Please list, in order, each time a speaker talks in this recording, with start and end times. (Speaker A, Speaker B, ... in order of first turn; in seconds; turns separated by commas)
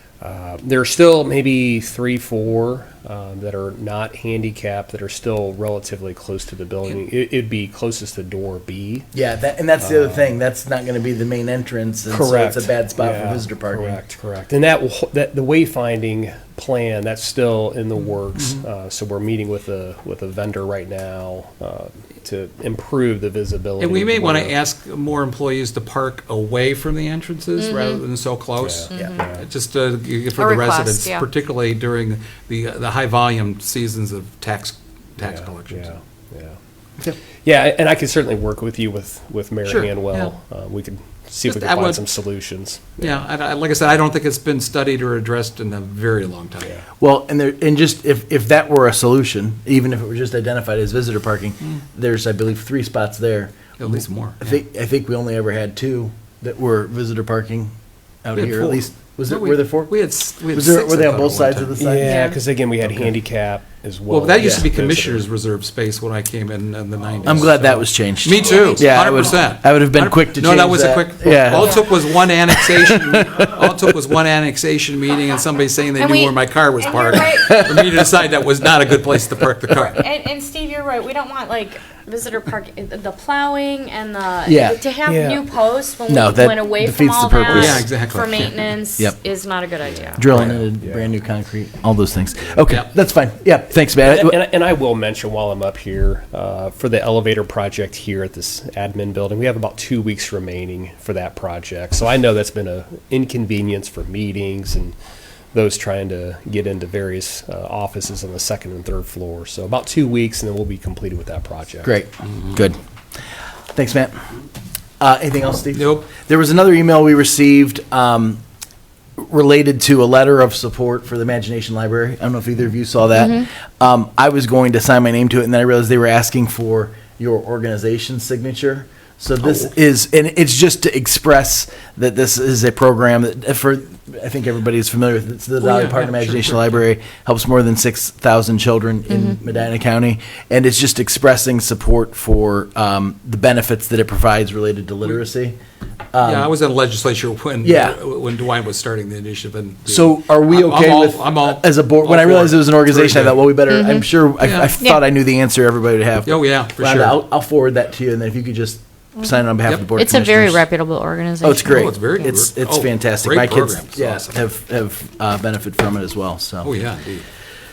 Speaker A: 0.2-9.1, Speaker B: 9.1-14.0, Speaker A: 9.8-10.3, Speaker A: 12.1-24.6, Speaker C: 23.8-35.9, Speaker D: 27.6-28.0, Speaker A: 28.6-29.4, Speaker D: 28.9-29.2, Speaker D: 30.3-31.2, Speaker A: 35.2-36.6, Speaker A: 37.4-43.2, Speaker C: 39.6-40.3, Speaker C: 41.4-42.0, Speaker C: 43.0-46.8, Speaker B: 47.0-57.7, Speaker C: 53.8-54.6, Speaker B: 58.2-59.9, Speaker C: 58.3-61.8, Speaker B: 60.5-62.2, Speaker A: 61.8-65.3, Speaker D: 62.0-62.4, Speaker B: 62.8-63.1, Speaker C: 64.1-80.0, Speaker B: 64.4-64.7, Speaker A: 67.2-67.5, Speaker B: 67.2-71.9, Speaker D: 68.3-69.3, Speaker D: 71.5-71.9, Speaker B: 72.5-73.7, Speaker D: 76.0-77.7, Speaker B: 77.5-78.0, Speaker D: 79.8-90.3, Speaker B: 84.5-84.8, Speaker A: 85.0-85.4, Speaker B: 86.1-87.9, Speaker C: 87.5-88.8, Speaker B: 90.2-94.4, Speaker C: 90.3-90.6, Speaker A: 90.3-91.1, Speaker A: 94.0-105.0, Speaker A: 105.5-111.9, Speaker B: 111.8-112.8, Speaker B: 113.7-114.2, Speaker B: 115.0-118.4, Speaker C: 115.7-116.1, Speaker B: 119.2-145.6, Speaker D: 123.2-123.4, Speaker C: 135.6-136.8, Speaker D: 139.1-139.4, Speaker B: 146.1-146.5, Speaker C: 146.2-153.5, Speaker B: 147.6-148.0, Speaker B: 149.9-160.7, Speaker D: 153.7-154.1, Speaker C: 154.4-154.7, Speaker C: 156.2-157.2, Speaker D: 159.9-161.9, Speaker B: 161.4-166.7, Speaker C: 161.6-164.3, Speaker C: 166.6-167.2